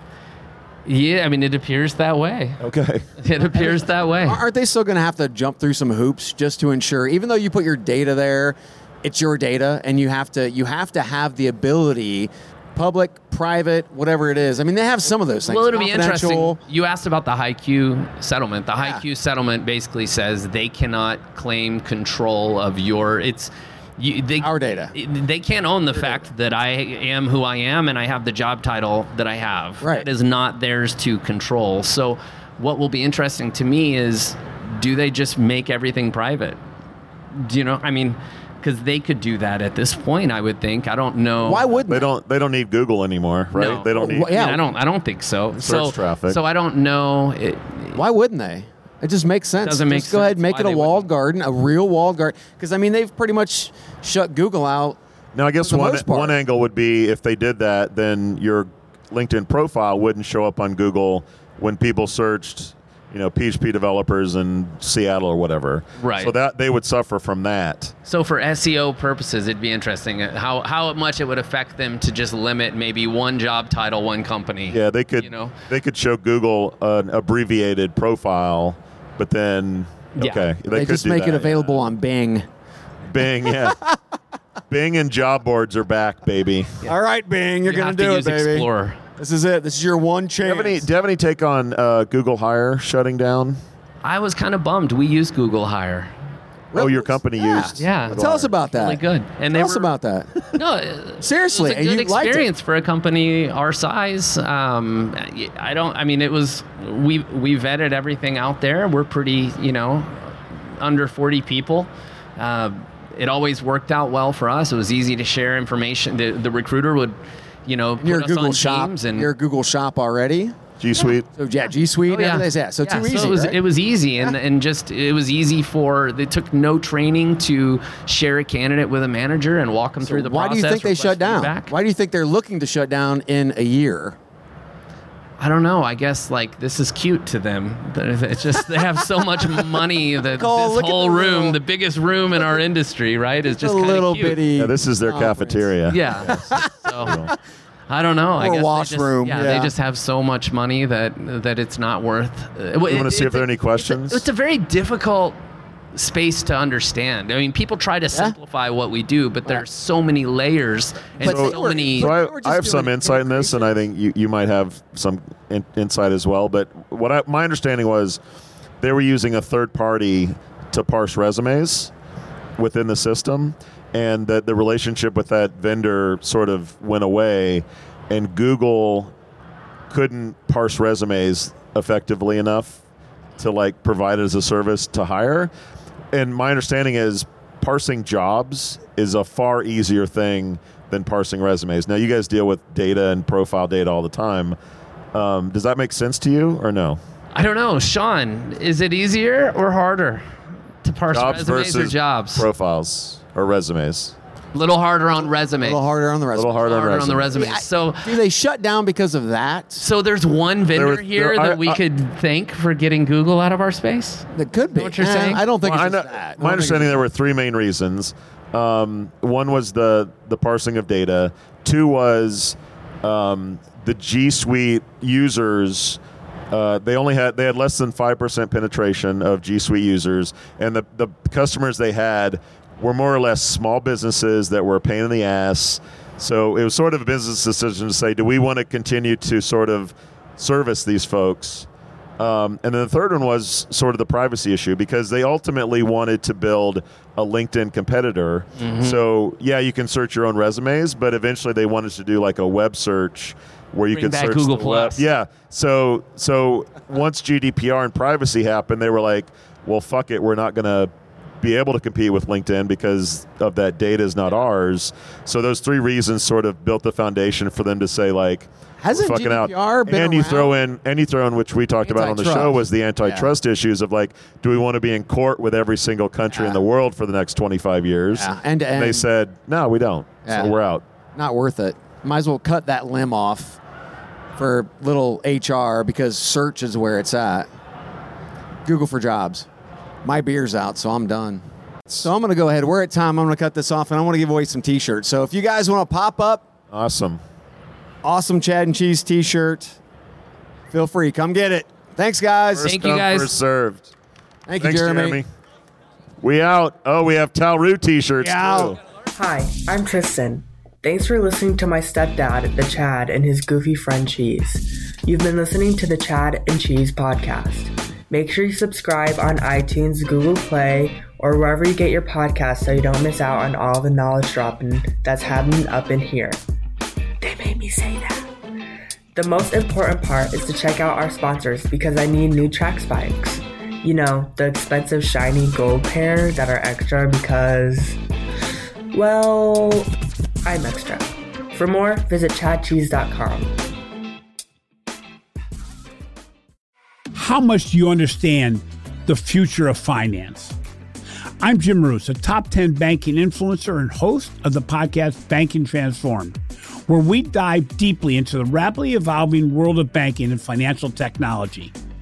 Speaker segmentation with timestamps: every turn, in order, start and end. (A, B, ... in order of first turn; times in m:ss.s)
0:00.8-0:02.6 A
0:02.6-0:03.1 B
0:03.2-0:04.4 A
0:03.5-0:16.6 C
0:15.4-0:36.6 A
0:24.4-0:24.9 C
0:25.9-0:26.2 C
0:29.8-0:30.1 C
0:37.3-0:41.8 A
0:41.4-0:42.1 C
0:41.9-0:44.3 B
0:43.5-0:48.0 A
0:43.8-0:44.6 C
0:45.6-0:46.4 B
0:47.9-0:55.0 C
0:49.6-0:51.1 A
0:55.3-1:07.9 B
0:55.6-0:56.3 C
1:06.0-1:06.3 A
1:08.0-1:15.5 A
1:14.7-1:21.8 B
1:20.2-1:20.4 A
1:20.7-1:22.5 C
1:23.1-1:23.8 B
1:23.4-1:24.0 C
1:24.7-1:26.8 B
1:26.8-1:30.9 C
1:27.6-1:29.0 A
1:30.4-1:33.6 B
1:34.0-1:36.1 A
1:36.7-1:40.5 C
1:36.7-1:38.5 B
1:37.8-1:39.9 A
1:40.5-1:59.3 A
1:41.2-1:42.5 C
1:58.0-2:03.6 C
2:00.8-2:01.3 B
2:02.1-2:11.7 A
2:10.0-2:14.2 C
2:15.4-2:24.4 A
2:20.4-2:21.6 C
2:23.4-2:25.7 C
2:24.6-2:27.3 B
2:25.9-2:27.2 A
2:26.2-2:27.3 C
2:27.9-2:35.4 A
2:28.4-2:29.7 C
2:32.9-2:34.2 B
2:35.9-2:42.1 A
2:41.2-2:43.7 C
2:41.2-2:48.2 B
2:48.8-2:51.9 B
2:52.6-2:59.1 B
2:59.9-3:02.8 B
3:03.4-3:05.5 B
3:06.1-3:14.6 B
3:15.1-3:17.0 B
3:17.3-3:22.4 A
3:21.1-3:24.1 B
3:24.5-3:25.8 A
3:25.6-3:29.8 C
3:26.3-3:27.3 B
3:26.6-3:28.2 A
3:29.8-3:35.4 A
3:30.7-3:31.8 B
3:34.3-3:37.0 C
3:35.6-3:46.0 B
3:46.5-4:01.7 B
4:02.2-4:20.9 B
4:08.6-4:09.0 A
4:13.9-4:15.0 A
4:21.4-4:40.8 B
4:28.8-4:30.5 C
4:31.8-4:33.3 C
4:36.3-4:36.6 C
4:38.1-4:39.0 C
4:40.2-4:40.6 C
4:41.1-4:43.6 C
4:44.4-4:47.5 C
4:48.6-4:49.4 C
4:50.0-4:51.4 C
4:52.0-4:56.5 C
4:56.7-4:57.2 B
4:58.0-4:59.8 C
5:00.7-5:02.7 C
5:02.5-5:03.9 B
5:02.6-5:03.3 A
5:04.5-5:05.2 C
5:04.6-5:05.3 B
5:06.2-5:08.8 B
5:08.2-5:08.8 C
5:09.2-5:26.4 D
5:27.2-5:28.3 D
5:29.1-5:38.0 D
5:38.9-5:39.9 D
5:40.4-5:43.5 D
5:47.1-5:50.6 E
5:51.4-6:01.7 E